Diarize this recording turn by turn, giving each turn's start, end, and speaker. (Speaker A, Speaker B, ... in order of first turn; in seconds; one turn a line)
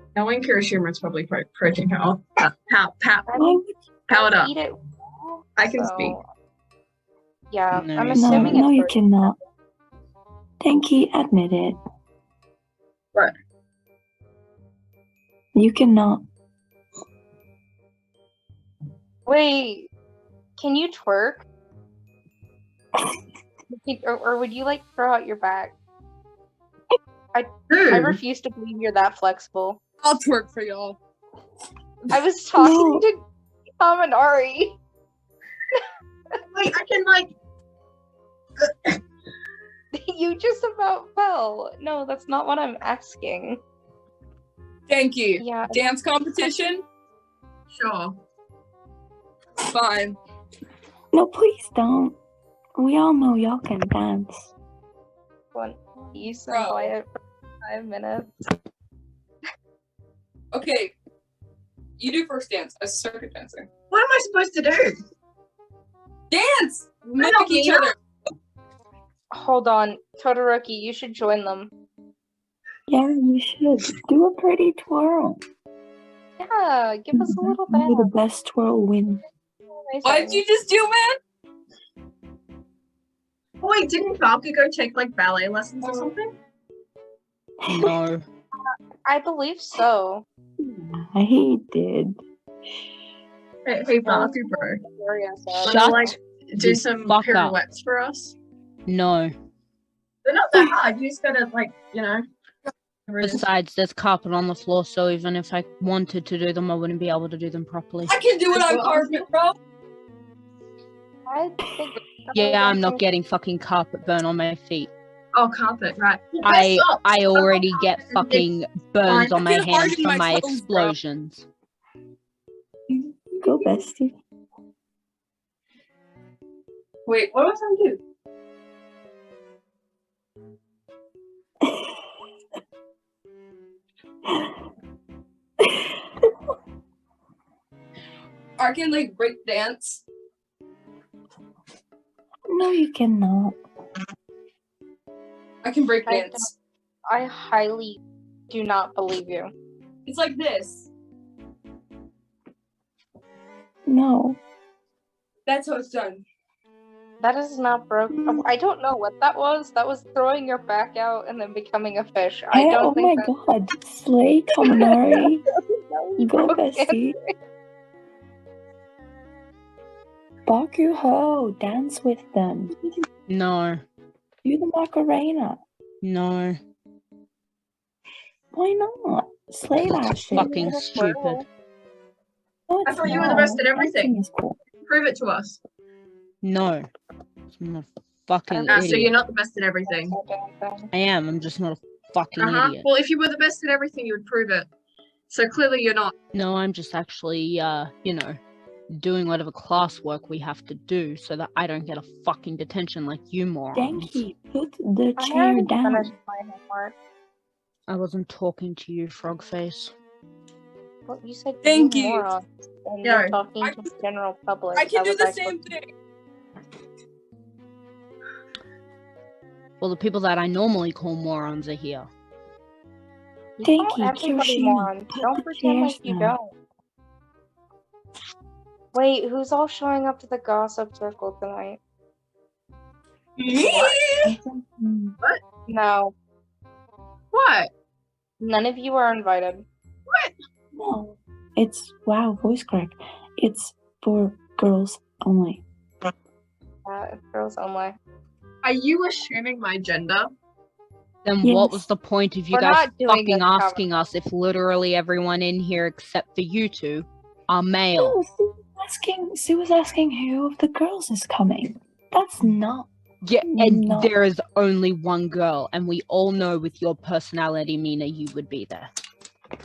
Speaker A: 0.1-3.3
Speaker B: 3.3-3.6
Speaker C: 3.4-3.7
Speaker A: 4.1-4.5
Speaker B: 4.1-6.2
Speaker A: 5.6-6.2
Speaker B: 7.5-9.3
Speaker D: 7.7-8.6
Speaker C: 8.2-9.4
Speaker C: 10.6-11.8
Speaker C: 15.6-16.2
Speaker B: 19.3-19.9
Speaker B: 20.6-21.4
Speaker B: 23.7-25.8
Speaker B: 27.3-29.8
Speaker A: 27.7-28.2
Speaker E: 30.0-31.0
Speaker B: 32.1-33.2
Speaker C: 32.5-33.1
Speaker B: 33.8-34.8
Speaker A: 36.5-37.3
Speaker A: 38.6-38.9
Speaker B: 39.9-43.6
Speaker E: 44.9-46.9
Speaker B: 45.4-45.8
Speaker A: 47.7-48.2
Speaker E: 49.6-50.2
Speaker C: 51.1-52.2
Speaker C: 52.8-54.5
Speaker B: 55.5-57.1
Speaker E: 56.5-56.9
Speaker B: 57.6-58.3
Speaker E: 60.5-60.9
Speaker E: 62.0-63.7
Speaker A: 63.9-65.0
Speaker E: 66.3-68.0
Speaker A: 67.2-67.9
Speaker B: 69.3-71.7
Speaker C: 72.9-75.4
Speaker B: 76.4-78.1
Speaker C: 77.1-79.2
Speaker B: 79.7-80.4
Speaker E: 80.0-81.2
Speaker A: 83.6-86.3
Speaker E: 85.8-86.1
Speaker C: 87.6-87.9
Speaker D: 87.7-88.2
Speaker B: 88.7-90.2
Speaker C: 90.7-92.2
Speaker A: 93.7-94.8
Speaker B: 94.0-95.8
Speaker A: 95.6-98.3
Speaker D: 95.6-97.6
Speaker D: 98.9-99.3
Speaker A: 100.2-102.2
Speaker A: 103.1-103.5
Speaker D: 103.2-108.2
Speaker E: 108.1-109.6
Speaker A: 108.5-109.2
Speaker B: 111.3-113.0
Speaker D: 112.3-114.9
Speaker A: 115.3-118.5
Speaker D: 116.4-121.5
Speaker A: 119.1-120.0
Speaker E: 119.4-121.0
Speaker E: 122.9-123.8
Speaker C: 123.4-124.2
Speaker E: 127.1-127.3
Speaker A: 127.3-128.0
Speaker C: 131.7-131.9
Speaker C: 135.6-135.9
Speaker E: 138.6-140.0
Speaker C: 142.5-143.6
Speaker E: 145.6-146.5
Speaker B: 146.1-146.5
Speaker B: 147.1-149.5
Speaker E: 150.1-150.9
Speaker C: 153.9-154.4
Speaker E: 155.5-156.2
Speaker B: 157.2-163.3
Speaker C: 158.2-158.4
Speaker C: 162.5-165.4
Speaker B: 165.9-167.0
Speaker C: 166.2-167.2
Speaker C: 170.5-172.7
Speaker D: 173.3-173.8
Speaker C: 174.4-175.6
Speaker D: 176.0-176.6
Speaker C: 178.5-180.7
Speaker D: 179.8-181.4
Speaker B: 180.3-181.5
Speaker C: 182.7-184.6
Speaker A: 182.9-184.1
Speaker A: 184.9-185.6
Speaker D: 186.4-186.9
Speaker D: 187.5-189.2
Speaker B: 188.5-189.0
Speaker A: 188.7-190.2
Speaker B: 189.9-190.9
Speaker D: 190.9-192.9
Speaker A: 192.4-194.7
Speaker A: 195.3-196.1
Speaker D: 196.3-198.4
Speaker D: 198.9-204.2
Speaker C: 203.7-206.1
Speaker B: 205.2-207.0
Speaker D: 207.9-209.9
Speaker B: 211.1-215.7
Speaker E: 211.6-212.3
Speaker A: 213.0-213.4
Speaker E: 213.6-213.9
Speaker E: 214.7-215.9
Speaker D: 219.8-222.1
Speaker B: 223.6-226.5
Speaker C: 223.6-226.4
Speaker B: 228.9-231.8
Speaker E: 233.4-234.3
Speaker A: 233.5-234.3
Speaker C: 234.2-235.2
Speaker B: 235.7-236.1
Speaker A: 237.3-237.7
Speaker B: 238.4-239.7
Speaker A: 240.1-240.3
Speaker C: 240.8-245.6
Speaker B: 246.8-248.0
Speaker A: 248.6-250.3
Speaker D: 251.2-258.2
Speaker C: 251.4-251.9
Speaker B: 252.5-253.8
Speaker C: 258.0-262.9
Speaker D: 263.2-268.9
Speaker C: 263.4-264.1